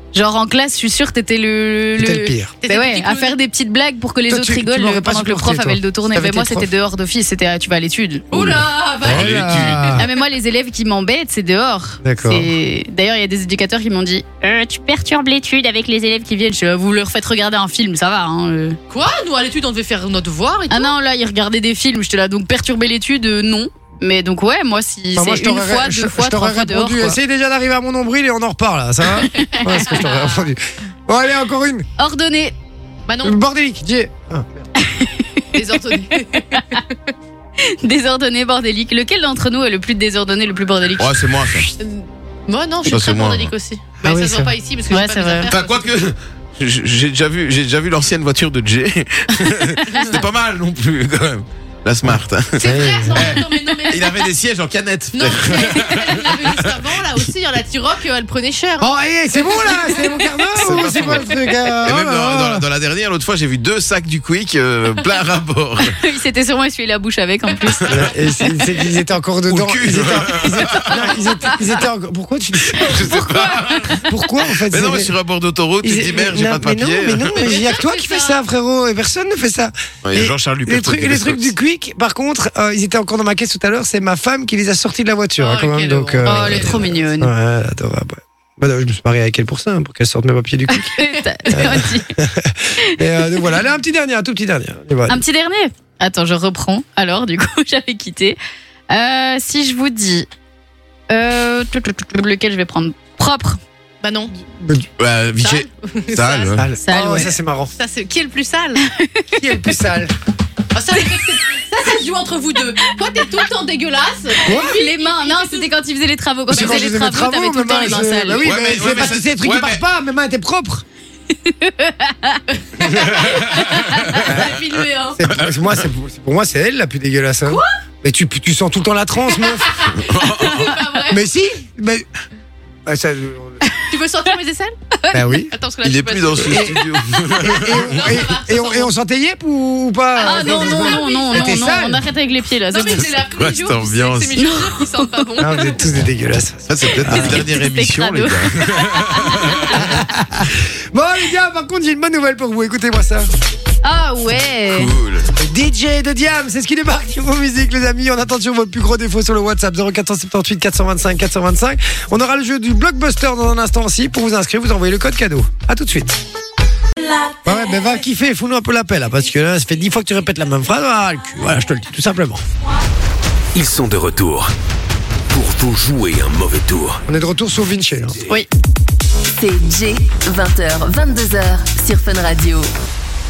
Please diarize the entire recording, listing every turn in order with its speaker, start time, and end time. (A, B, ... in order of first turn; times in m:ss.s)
0:00.1-0:08.2 A
0:02.0-0:02.5 B
0:02.6-0:03.4 C
0:04.3-0:06.7 B
0:08.3-0:10.1 C
0:08.3-0:10.0 D
0:09.0-0:10.0 B
0:10.0-0:18.8 A
0:12.0-0:12.5 B
0:18.9-0:20.9 C
0:20.7-0:27.2 A
0:25.2-0:31.9 B
0:29.2-0:30.0 A
0:29.4-0:30.4 C
0:32.0-0:32.5 A
0:33.1-0:33.4 C
0:33.2-0:34.7 B
0:34.8-0:35.6 A
0:35.5-0:36.9 C
0:36.5-0:36.8 A
0:37.6-0:41.3 A
0:41.0-0:41.7 D
0:41.8-0:45.9 C
0:42.8-0:43.5 D
0:44.0-0:44.5 B
0:44.9-0:45.5 A
0:45.5-0:56.8 D
0:52.6-0:54.3 C
0:52.6-0:53.3 B
0:55.1-1:00.2 C
0:58.8-1:02.6 B
1:00.6-1:06.0 D
1:05.9-1:08.1 A
1:07.9-1:13.1 B
1:09.5-1:11.2 D
1:12.6-1:17.5 D
1:13.0-1:13.9 A
1:14.0-1:15.1 B
1:15.8-1:30.9 B
1:17.3-1:18.4 C
1:20.0-1:21.6 D
1:25.4-1:27.0 C
1:26.2-1:27.3 A
1:30.7-1:32.1 A
1:31.5-1:35.2 B
1:33.2-1:33.6 A
1:35.1-1:38.4 A
1:38.9-1:40.3 A
1:41.1-1:43.6 A
1:44.0-1:44.3 C
1:44.6-1:44.9 B
1:45.0-1:46.7 D
1:45.4-1:46.6 C
1:46.6-1:47.7 B
1:46.8-1:47.3 A
1:47.8-1:48.8 C
1:48.8-1:49.6 A
1:49.4-1:50.1 B
1:50.7-1:55.7 C
1:54.4-1:54.8 B
1:54.5-1:58.5 A
1:56.5-2:00.8 B
1:56.5-1:57.0 C
1:58.4-1:59.8 D
2:01.4-2:02.4 A
2:02.8-2:05.3 C
2:03.0-2:04.3 D
2:03.7-2:04.2 A
2:05.2-2:09.7 B
2:05.4-2:05.7 D
2:09.4-2:11.3 C
2:09.9-2:10.8 D
2:11.1-2:12.0 B
2:12.9-2:13.6 B
2:13.9-2:14.8 C
2:15.0-2:15.3 A
2:15.1-2:15.5 B
2:15.5-2:16.8 C
2:15.8-2:18.2 D
2:16.5-2:16.8 B
2:17.4-2:22.0 B
2:17.5-2:18.9 C
2:20.2-2:21.9 C
2:20.2-2:23.2 A
2:22.7-2:25.8 C
2:23.2-2:24.4 D
2:24.4-2:25.3 A
2:25.4-2:27.4 B
2:26.7-2:29.9 D
2:27.0-2:30.0 A
2:29.7-2:33.3 B
2:33.8-2:34.9 A
2:34.7-2:35.3 D
2:35.4-2:46.2 B
2:47.4-2:52.4 B
2:53.5-2:54.5 E
2:55.3-2:57.0 E
2:57.1-2:58.2 B
2:59.3-3:02.7 F